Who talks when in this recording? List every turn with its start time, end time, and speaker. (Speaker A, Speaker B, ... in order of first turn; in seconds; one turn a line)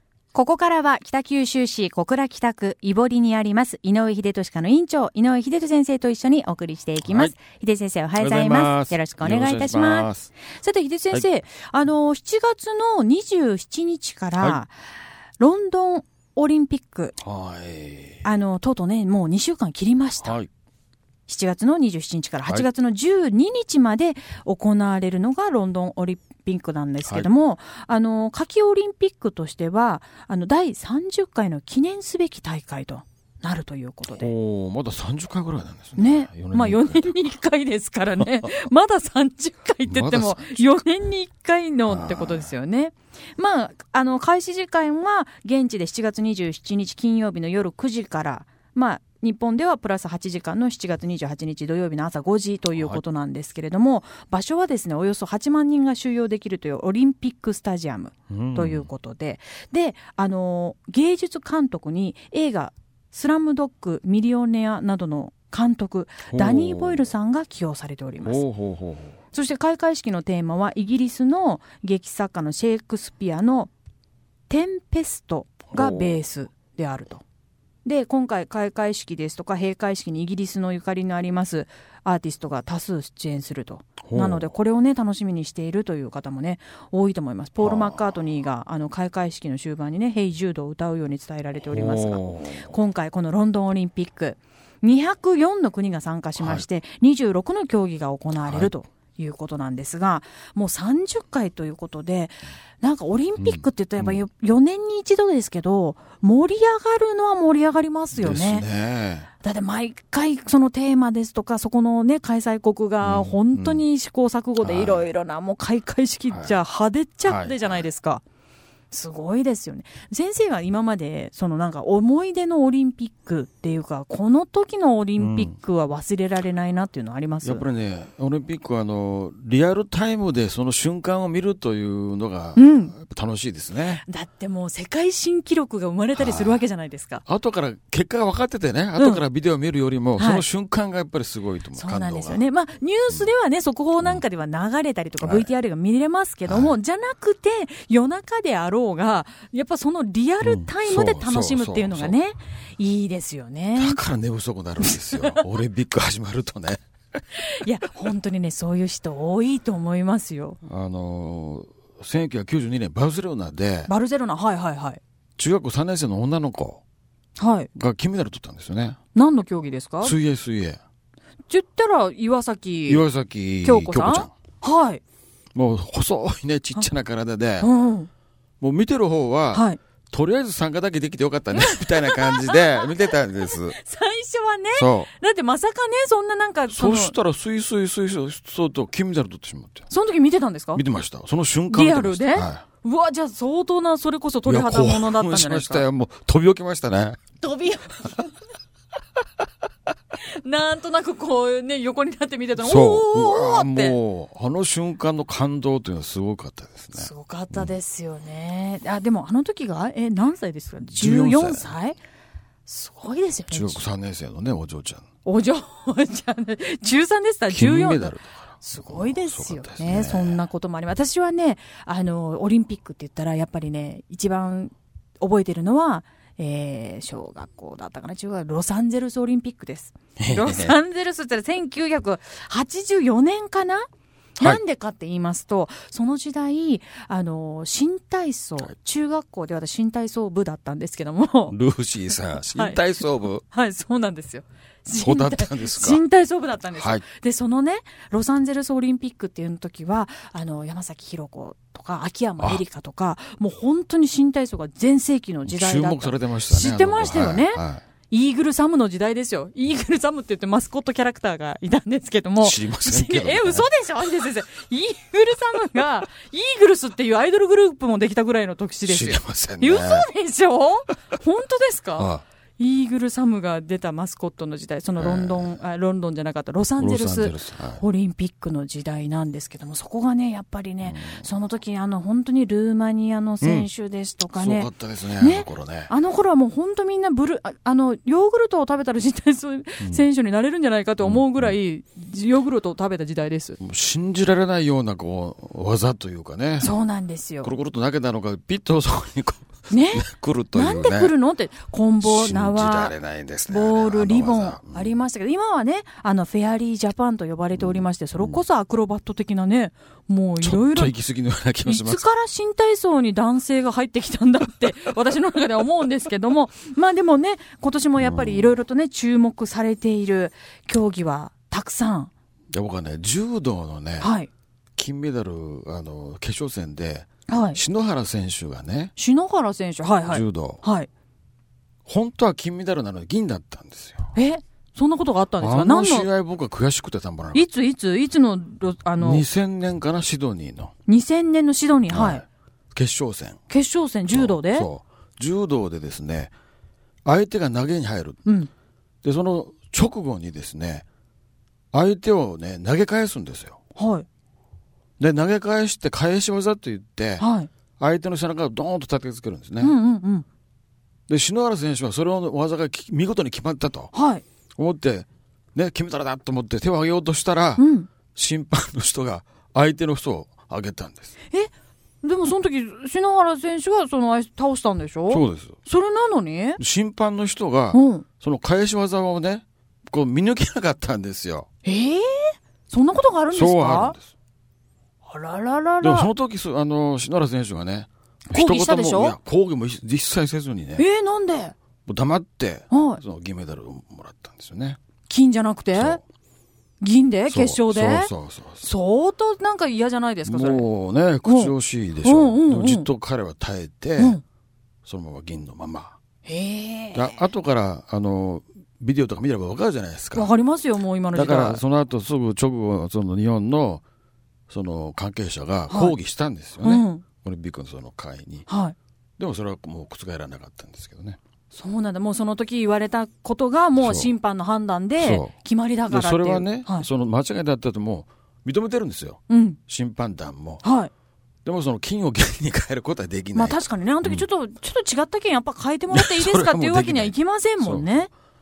Speaker A: 0.3-14.7
Speaker B: 7.0-7.3
Speaker B: 8.2-10.3
Speaker A: 15.4-17.1
Speaker B: 17.2-18.2
Speaker A: 18.2-20.4
Speaker B: 20.2-20.5
Speaker A: 21.3-34.3
Speaker B: 34.1-37.2
Speaker A: 36.0-68.4
Speaker B: 38.2-38.4
Speaker B: 39.9-40.6
Speaker B: 41.9-42.5
Speaker B: 52.8-53.0
Speaker B: 58.3-58.9
Speaker B: 66.3-67.1
Speaker B: 68.2-69.2
Speaker A: 69.3-73.7
Speaker A: 74.5-77.2
Speaker B: 75.7-76.2
Speaker A: 77.8-108.6
Speaker B: 84.0-84.5
Speaker B: 87.6-88.0
Speaker B: 91.7-92.7
Speaker B: 96.4-96.6
Speaker B: 103.4-104.2
Speaker B: 108.1-109.3
Speaker A: 109.4-118.2
Speaker B: 113.0-113.8
Speaker B: 114.6-115.1
Speaker B: 116.3-116.5
Speaker B: 117.2-117.7
Speaker A: 118.9-127.6
Speaker B: 125.2-125.5
Speaker B: 127.4-134.0
Speaker A: 132.6-132.9
Speaker A: 134.0-137.2
Speaker B: 136.2-136.6
Speaker B: 137.2-142.4
Speaker A: 139.0-139.2
Speaker A: 140.2-140.4
Speaker A: 141.7-154.0
Speaker B: 145.2-145.5
Speaker B: 146.5-146.8
Speaker B: 150.4-152.1
Speaker B: 153.8-156.8
Speaker A: 154.8-155.4
Speaker A: 157.4-160.6
Speaker B: 160.6-163.9
Speaker A: 163.9-165.0
Speaker B: 165.4-166.8
Speaker A: 167.4-167.7
Speaker B: 167.7-169.0
Speaker A: 169.1-170.1
Speaker B: 170.0-170.8
Speaker A: 171.5-173.0
Speaker B: 172.9-174.3
Speaker A: 173.6-175.0
Speaker B: 175.5-177.7
Speaker A: 177.6-178.1
Speaker B: 178.6-183.8
Speaker A: 179.5-179.8
Speaker A: 181.5-187.1
Speaker B: 184.8-185.1
Speaker B: 186.7-189.9
Speaker A: 189.9-190.8
Speaker B: 190.7-192.6
Speaker A: 191.7-195.8
Speaker B: 194.4-197.2
Speaker A: 197.4-198.3
Speaker A: 200.2-204.0
Speaker B: 202.6-207.7
Speaker A: 206.9-212.0
Speaker B: 210.9-211.7
Speaker A: 212.7-213.8
Speaker B: 213.5-215.1
Speaker A: 215.2-233.9
Speaker B: 217.5-220.4
Speaker B: 230.2-230.7
Speaker A: 234.4-241.5
Speaker B: 241.5-243.4
Speaker A: 242.5-242.8
Speaker A: 243.4-293.6
Speaker B: 244.9-246.0
Speaker B: 246.7-247.0
Speaker B: 255.4-257.8
Speaker B: 262.4-263.7
Speaker B: 268.9-270.1
Speaker B: 271.9-272.2
Speaker B: 275.0-275.5
Speaker B: 276.8-277.8
Speaker B: 280.8-281.2
Speaker B: 283.4-283.7
Speaker B: 284.3-285.9
Speaker B: 291.0-291.5
Speaker B: 293.6-296.7
Speaker A: 296.6-297.5
Speaker B: 297.4-301.1
Speaker A: 299.7-302.9
Speaker B: 302.0-304.9
Speaker A: 303.5-310.9
Speaker B: 307.6-308.4
Speaker B: 310.4-312.1
Speaker A: 311.6-322.1
Speaker B: 318.0-318.5
Speaker B: 322.5-324.1
Speaker A: 324.0-324.3
Speaker B: 324.8-328.9
Speaker A: 327.3-327.6
Speaker A: 328.9-330.9
Speaker B: 330.1-330.6
Speaker B: 331.9-334.1
Speaker A: 334.1-336.1
Speaker B: 335.4-337.5
Speaker A: 337.3-339.2
Speaker B: 339.0-340.7
Speaker A: 340.9-342.2
Speaker B: 341.9-343.4
Speaker A: 343.5-344.7
Speaker B: 344.1-346.3
Speaker B: 347.0-348.2
Speaker A: 348.2-348.5
Speaker B: 349.0-350.8
Speaker B: 351.7-353.6
Speaker A: 353.8-354.1
Speaker B: 355.0-357.2
Speaker A: 357.2-357.5
Speaker B: 357.8-359.7
Speaker A: 359.6-360.2
Speaker B: 361.1-363.9
Speaker A: 363.9-364.2
Speaker B: 364.6-371.1
Speaker A: 367.6-367.9
Speaker A: 372.0-376.6
Speaker B: 375.1-375.6
Speaker B: 376.6-381.5
Speaker A: 377.7-378.0
Speaker A: 381.6-383.9
Speaker B: 383.3-384.0
Speaker A: 385.0-386.1
Speaker B: 385.8-390.9
Speaker A: 388.3-389.1
Speaker A: 390.8-391.5
Speaker B: 391.9-394.8
Speaker A: 392.7-393.0
Speaker A: 395.1-396.0
Speaker B: 395.7-396.0
Speaker A: 396.8-400.6
Speaker B: 397.3-398.6
Speaker B: 400.2-404.2
Speaker A: 401.2-402.9
Speaker B: 404.8-406.0
Speaker A: 406.2-407.3
Speaker B: 406.9-410.3
Speaker A: 410.1-411.6
Speaker B: 411.1-413.8
Speaker B: 414.5-418.5
Speaker A: 415.7-415.9
Speaker A: 416.6-417.0
Speaker A: 418.5-418.8
Speaker B: 419.2-421.2
Speaker A: 421.5-426.9
Speaker B: 423.8-424.1
Speaker B: 425.0-425.3
Speaker B: 425.9-430.6
Speaker A: 429.3-429.6
Speaker A: 430.6-430.9
Speaker B: 431.4-434.2
Speaker A: 433.3-438.1
Speaker B: 435.9-438.0